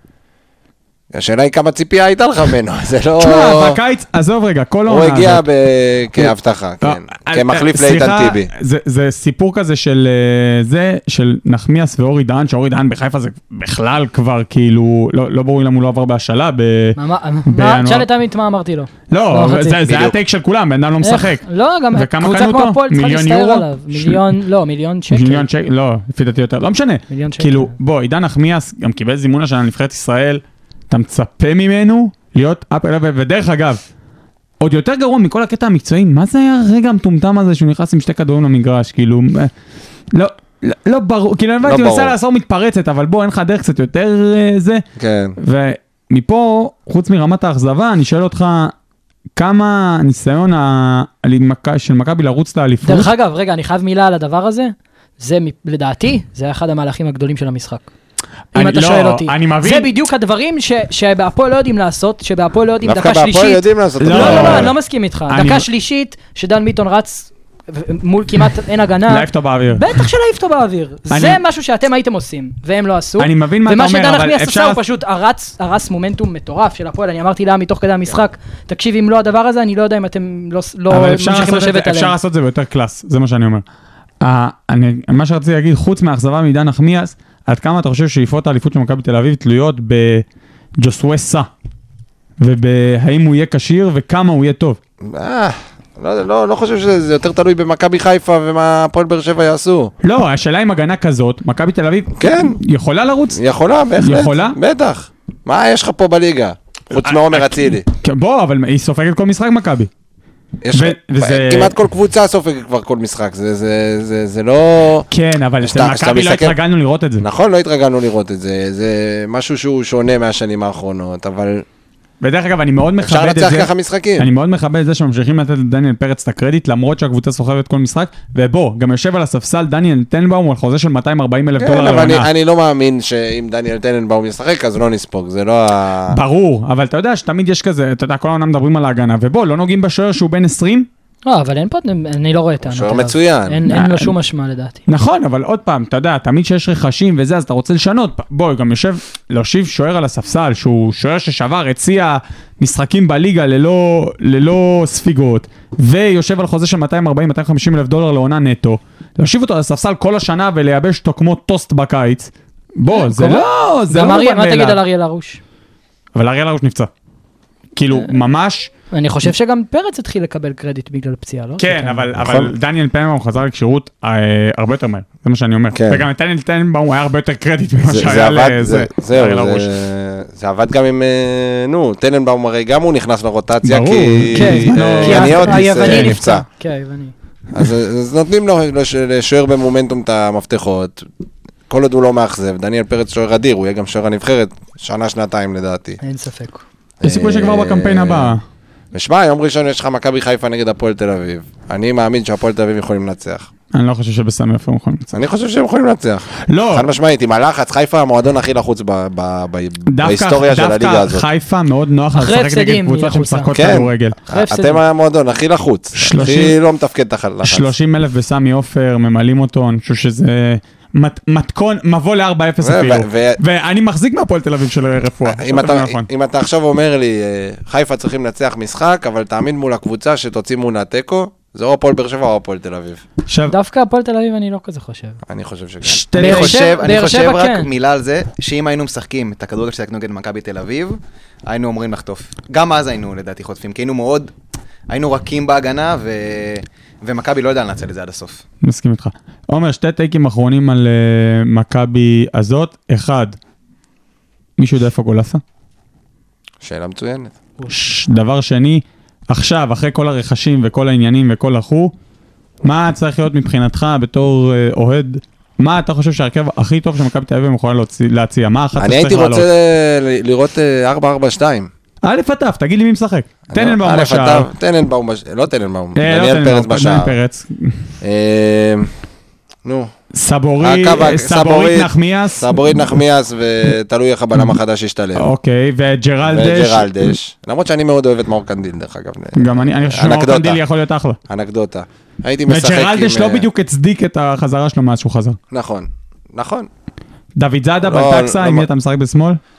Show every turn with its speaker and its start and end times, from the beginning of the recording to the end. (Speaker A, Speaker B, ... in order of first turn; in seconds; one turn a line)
Speaker A: 1.1-3.8
Speaker B: 3.2-5.4
Speaker A: 4.9-8.5
Speaker B: 6.2-18.1
Speaker C: 17.0-19.9
Speaker B: 19.1-21.4
Speaker C: 21.0-25.5
Speaker B: 21.9-24.2
Speaker B: 25.1-33.8
Speaker C: 27.1-27.7
Speaker B: 34.6-39.5
Speaker B: 40.1-44.8
Speaker A: 41.6-42.1
Speaker A: 45.0-45.4
Speaker B: 45.4-48.7
Speaker B: 49.4-53.1
Speaker C: 52.8-57.9
Speaker B: 58.5-59.9
Speaker C: 58.5-82.1
Speaker A: 62.8-64.7
Speaker B: 64.0-64.7
Speaker B: 65.3-65.7
Speaker B: 69.1-70.0
Speaker B: 71.1-71.4
Speaker B: 73.2-74.8
Speaker B: 80.9-83.6
Speaker B: 84.2-90.2
Speaker B: 90.8-91.5
Speaker B: 92.4-94.8
Speaker A: 95.0-99.9
Speaker B: 100.0-103.4
Speaker A: 102.2-102.6
Speaker A: 103.3-107.8
Speaker B: 104.0-104.6
Speaker B: 107.0-109.9
Speaker A: 110.6-115.1
Speaker B: 110.7-111.7
Speaker B: 115.1-117.2
Speaker A: 115.6-116.6
Speaker A: 117.2-121.7
Speaker B: 122.2-132.3
Speaker A: 123.0-124.3
Speaker A: 131.6-136.2
Speaker B: 136.1-140.9
Speaker C: 141.2-144.8
Speaker A: 142.6-143.6
Speaker B: 143.7-144.1
Speaker B: 144.9-164.8
Speaker C: 162.9-165.4
Speaker B: 166.1-166.9
Speaker B: 167.8-168.7
Speaker C: 168.9-172.1
Speaker B: 171.6-179.7
Speaker A: 172.2-172.5
Speaker A: 175.7-176.1
Speaker A: 177.8-186.4
Speaker B: 183.6-186.2
Speaker C: 184.3-187.1
Speaker A: 187.5-191.1
Speaker A: 191.7-196.0
Speaker C: 196.0-196.6
Speaker A: 197.0-198.3
Speaker B: 197.0-198.4
Speaker A: 198.9-203.5
Speaker B: 203.7-205.2
Speaker A: 205.1-211.2
Speaker B: 206.4-206.9
Speaker B: 209.9-214.2
Speaker C: 212.2-213.5
Speaker A: 213.5-217.7
Speaker C: 214.3-214.8
Speaker B: 215.9-216.6
Speaker B: 217.4-226.1
Speaker A: 222.6-223.4
Speaker A: 225.2-233.0
Speaker B: 233.3-233.5
Speaker C: 233.5-235.2
Speaker A: 235.2-236.1
Speaker B: 235.8-236.6
Speaker C: 236.2-237.7
Speaker D: 236.2-244.3
Speaker D: 244.9-248.4
Speaker B: 248.6-253.3
Speaker B: 254.6-255.4
Speaker A: 256.6-257.3
Speaker B: 257.7-261.9
Speaker B: 262.6-269.5
Speaker A: 268.8-271.7
Speaker B: 272.0-274.5
Speaker A: 273.5-277.1
Speaker B: 275.9-277.9
Speaker A: 278.0-278.9
Speaker A: 279.6-279.9
Speaker B: 280.1-282.9
Speaker A: 280.6-285.3
Speaker B: 285.1-287.2
Speaker A: 286.2-290.6
Speaker B: 289.3-291.2
Speaker A: 291.3-293.5
Speaker B: 292.5-295.4
Speaker A: 295.5-296.7
Speaker B: 297.4-299.4
Speaker A: 297.8-298.7